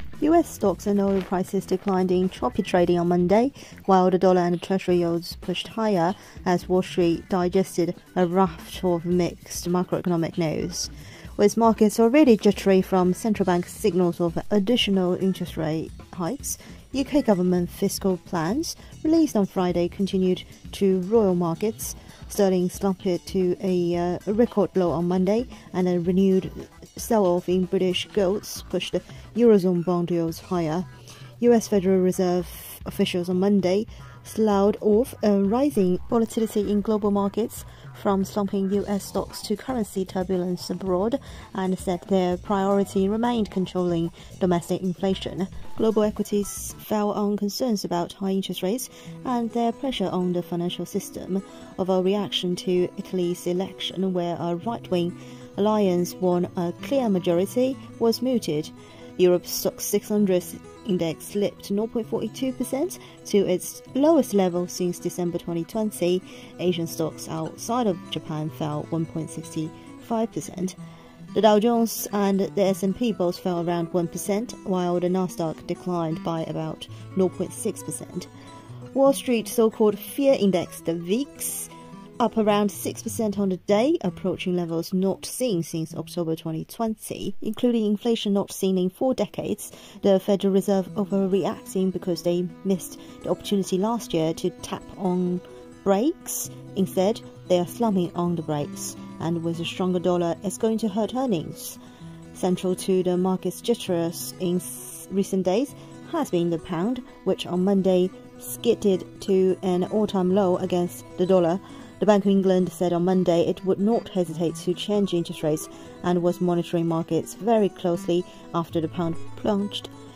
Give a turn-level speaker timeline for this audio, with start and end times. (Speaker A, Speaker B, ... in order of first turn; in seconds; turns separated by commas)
Speaker A: 0.2-30.9, Speaker A: 31.4-70.8, Speaker A: 71.3-78.3, Speaker A: 78.9-101.8, Speaker A: 102.3-119.9